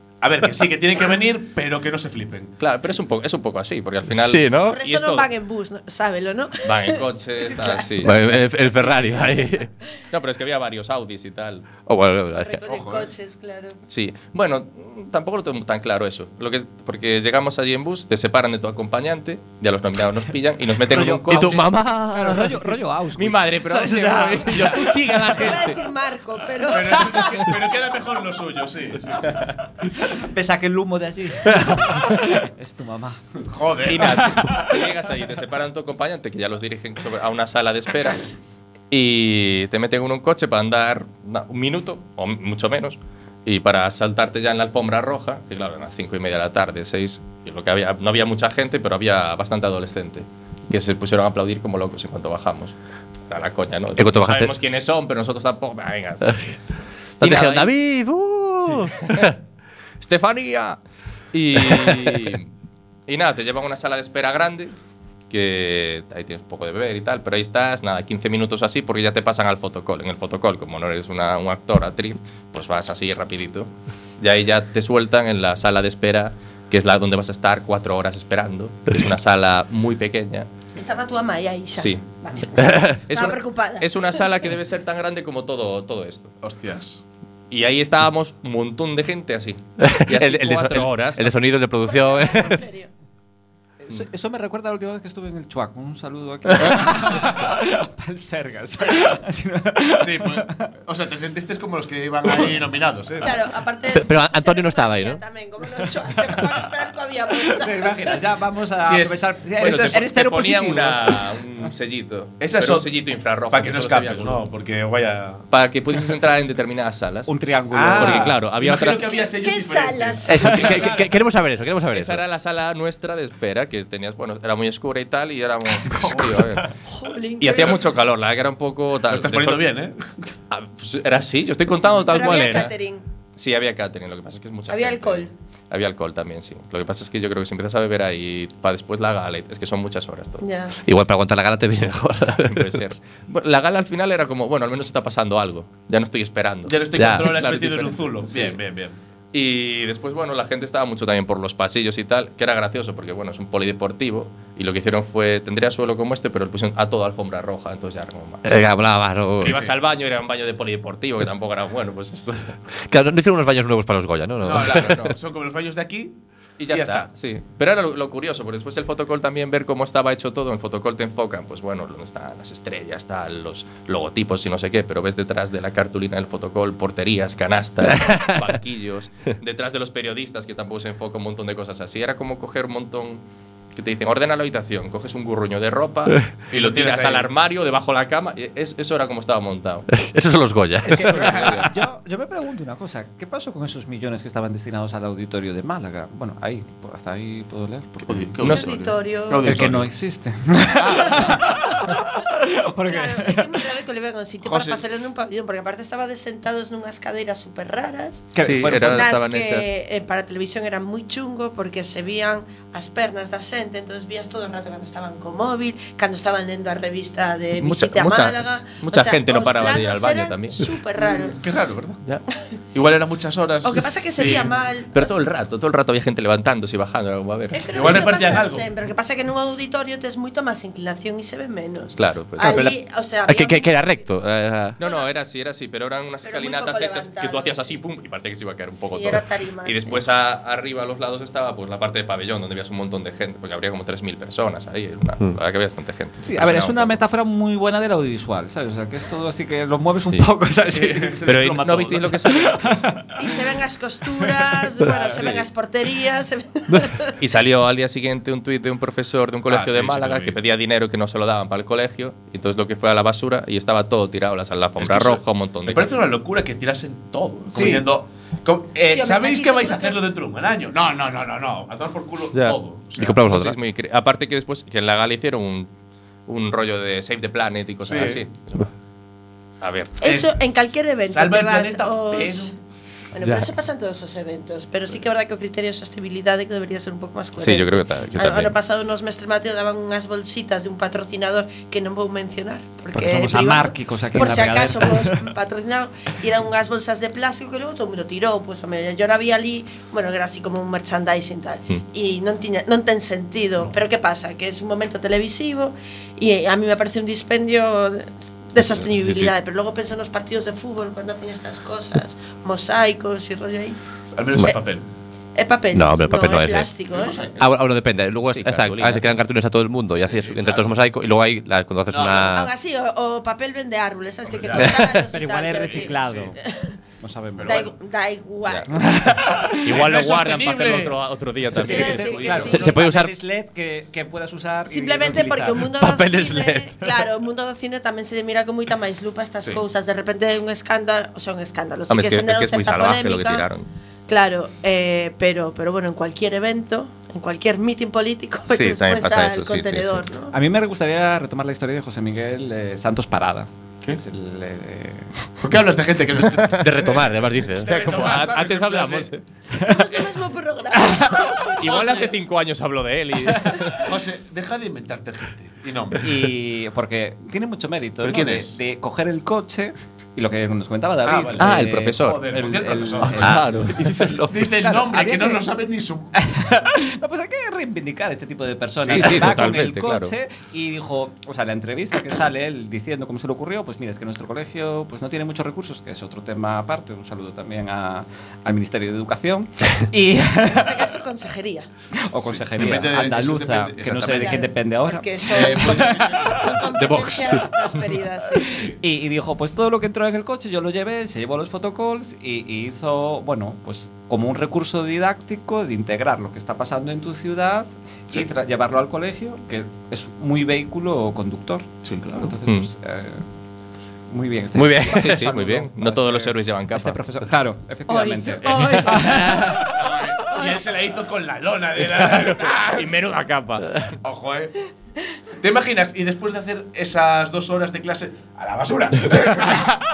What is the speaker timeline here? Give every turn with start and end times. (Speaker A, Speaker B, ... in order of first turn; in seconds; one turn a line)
Speaker A: 0.2-2.5
Speaker B: 2.6-5.2
Speaker C: 4.1-4.8
Speaker D: 4.6-7.8
Speaker B: 6.6-8.2
Speaker C: 8.0-9.7
Speaker B: 10.1-11.7
Speaker C: 11.8-12.7
Speaker D: 12.4-13.8
Speaker A: 12.7-13.1
Speaker B: 13.9-21.6
Speaker E: 20.8-25.2
Speaker C: 20.9-22.7
Speaker B: 23.2-25.8
Speaker D: 25.3-27.4
Speaker A: 26.7-29.4
Speaker B: 29.3-29.5
Speaker E: 30.0-33.4
Speaker A: 33.4-34.4
Speaker B: 33.9-38.2
Speaker E: 33.9-34.9
Speaker B: 38.9-52.7
Speaker B: 53.3-56.4
Speaker C: 54.0-54.5
Speaker B: 57.2-57.7
Speaker C: 57.2-59.3
Speaker B: 58.6-59.3
Speaker B: 60.0-60.8
Speaker B: 61.3-62.5
Speaker C: 61.6-62.3
Speaker B: 63.1-64.7
Speaker B: 65.3-80.5
Speaker D: 80.8-84.5
Speaker B: 81.8-82.0
Speaker C: 82.6-82.9
Speaker B: 82.7-86.3
Speaker A: 86.4-87.0
Speaker B: 87.5-91.4
Speaker C: 89.8-92.6
Speaker D: 91.8-92.9
Speaker E: 93.8-100.7
Speaker A: 96.7-97.4
Speaker A: 100.0-103.5
Speaker D: 103.2-108.1
Speaker C: 103.9-105.2
Speaker E: 107.3-111.3
Speaker A: 108.8-110.1
Speaker B: 109.6-114.4
Speaker A: 112.4-112.9
Speaker A: 113.5-115.4
Speaker B: 115.5-117.3
Speaker E: 117.3-118.3
Speaker A: 117.7-120.8
Speaker B: 117.9-119.0
Speaker D: 119.1-120.5
Speaker C: 120.2-122.2
Speaker B: 120.6-120.8
Speaker B: 121.9-126.7
Speaker A: 126.0-126.3
Speaker D: 126.9-127.8
Speaker B: 127.4-129.6
Speaker A: 129.1-130.1
Speaker B: 130.5-132.7
Speaker D: 132.0-133.0
Speaker B: 133.4-140.4
Speaker D: 134.7-135.3
Speaker D: 140.4-140.8
Speaker C: 140.8-142.7
Speaker B: 142.4-148.6
Speaker A: 146.7-149.0
Speaker C: 146.9-147.3
Speaker B: 149.3-158.4
Speaker C: 158.4-159.5
Speaker B: 159.4-162.6
Speaker A: 159.4-159.7
Speaker C: 162.8-165.1
Speaker A: 164.4-166.2
Speaker B: 164.6-165.1
Speaker B: 166.6-183.2
Speaker A: 166.7-167.1
Speaker C: 177.8-178.5
Speaker B: 183.7-189.9
Speaker A: 186.5-187.3
Speaker C: 190.0-191.1
Speaker E: 190.8-198.3
Speaker B: 190.9-191.7
Speaker A: 191.1-191.7
Speaker A: 198.1-199.9
Speaker B: 198.4-198.8
Speaker D: 198.4-199.6
Speaker E: 199.4-203.7
Speaker A: 200.8-201.5
Speaker D: 201.2-202.0
Speaker D: 202.8-221.4
Speaker A: 204.4-204.8
Speaker E: 208.3-209.1
Speaker B: 208.4-209.7
Speaker B: 217.6-220.7
Speaker A: 221.0-222.0
Speaker A: 222.7-224.5
Speaker D: 223.6-225.2
Speaker B: 224.9-227.6
Speaker D: 227.5-234.1
Speaker A: 227.7-228.7
Speaker B: 232.0-232.6
Speaker C: 232.4-234.8
Speaker B: 234.8-247.0
Speaker D: 234.8-235.1
Speaker D: 236.2-237.8
Speaker D: 238.9-240.0
Speaker E: 246.2-251.2
Speaker A: 250.7-252.2
Speaker B: 251.2-252.9
Speaker E: 252.2-253.4
Speaker D: 253.2-257.1
Speaker E: 254.2-254.9
Speaker B: 255.2-255.4
Speaker B: 257.2-265.9
Speaker A: 259.5-260.4
Speaker A: 264.8-273.2
Speaker E: 267.5-267.9
Speaker D: 268.9-270.0
Speaker B: 272.3-272.6
Speaker C: 273.0-273.6
Speaker B: 273.2-275.7
Speaker B: 276.3-278.7
Speaker A: 277.8-278.2
Speaker B: 279.6-280.0
Speaker D: 280.0-282.5
Speaker A: 280.0-280.4
Speaker A: 281.0-282.5
Speaker D: 283.1-313.8
Speaker B: 287.4-288.5
Speaker E: 292.9-295.3
Speaker B: 308.7-309.3
Speaker A: 314.1-314.8
Speaker D: 315.3-317.2
Speaker C: 315.7-316.7
Speaker A: 316.9-317.4
Speaker C: 317.4-322.5
Speaker B: 318.3-319.1
Speaker A: 320.0-320.7
Speaker A: 321.9-322.3
Speaker D: 322.2-326.8
Speaker A: 324.4-324.8
Speaker C: 324.6-325.1
Speaker E: 325.0-326.4
Speaker A: 325.9-326.3
Speaker E: 327.0-327.7
Speaker A: 327.4-327.7
Speaker D: 327.4-328.9
Speaker E: 328.7-329.9
Speaker B: 329.6-332.5
Speaker A: 329.7-331.0
Speaker E: 331.6-335.8
Speaker D: 331.6-332.8
Speaker A: 331.7-332.5
Speaker C: 332.4-333.1
Speaker D: 334.7-343.4
Speaker C: 335.7-337.0
Speaker B: 341.9-343.7
Speaker D: 344.1-350.3
Speaker B: 348.5-350.1
Speaker E: 350.3-355.3
Speaker A: 355.4-359.1
Speaker C: 356.6-358.1
Speaker B: 357.7-359.2
Speaker D: 359.5-362.1
Speaker B: 361.6-363.9
Speaker A: 361.6-362.1
Speaker A: 363.7-366.3
Speaker E: 366.0-375.4
Speaker A: 368.0-368.6
Speaker A: 371.1-373.5
Speaker B: 371.4-372.3
Speaker B: 373.0-373.8
Speaker C: 373.2-374.5
Speaker A: 374.3-376.1
Speaker E: 376.1-390.9
Speaker A: 378.8-379.3
Speaker B: 378.9-380.1
Speaker D: 390.4-391.7
Speaker E: 391.9-396.4
Speaker A: 392.2-394.4
Speaker D: 394.1-398.7
Speaker A: 395.3-396.6
Speaker C: 396.7-397.4
Speaker A: 398.4-398.8
Speaker E: 398.5-413.2
Speaker A: 411.9-412.2
Speaker E: 414.1-419.8
Speaker C: 414.5-415.3
Speaker B: 414.8-417.0
Speaker D: 417.9-420.6
Speaker B: 418.5-419.0
Speaker C: 419.0-419.6
Speaker A: 419.5-422.9
Speaker B: 421.9-423.9
Speaker A: 424.0-424.6
Speaker A: 425.4-429.8